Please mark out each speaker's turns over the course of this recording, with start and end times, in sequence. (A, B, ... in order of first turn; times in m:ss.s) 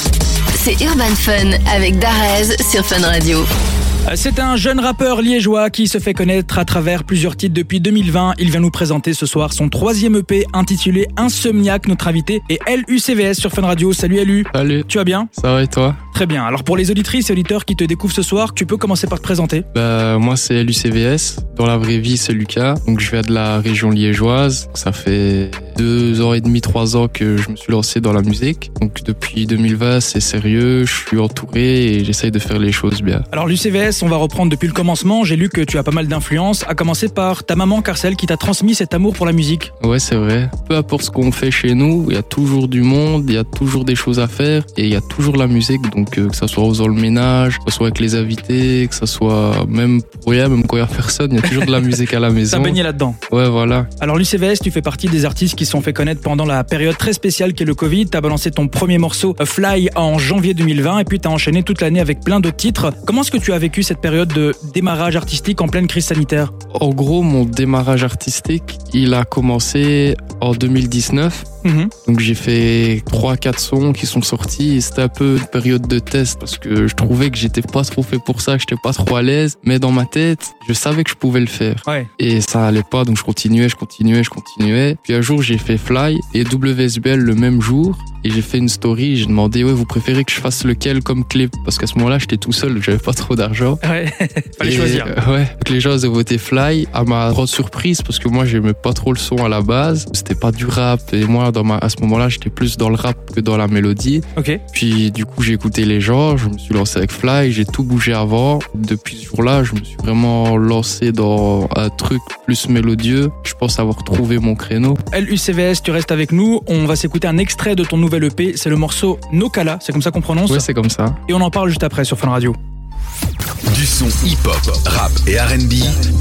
0:00.5-0:03.5 A
0:04.1-0:15.3 B
0:14.5-0:16.0 C
0:16.1-0:19.6 B
0:19.7-0:33.3 C
0:33.3-0:39.7 B
0:39.8-0:53.9 C
0:51.5-0:51.9 B
0:52.5-0:53.2 B
0:54.0-1:06.5 B
1:06.7-1:11.5 C
1:11.6-1:11.9 B
1:12.0-1:33.8 C
1:33.8-1:35.1 B
1:34.6-1:55.0 C
1:44.4-1:44.6 B
1:55.1-2:00.7 B
2:00.5-2:01.2 C
2:01.3-2:02.6 B
2:03.7-2:06.0 D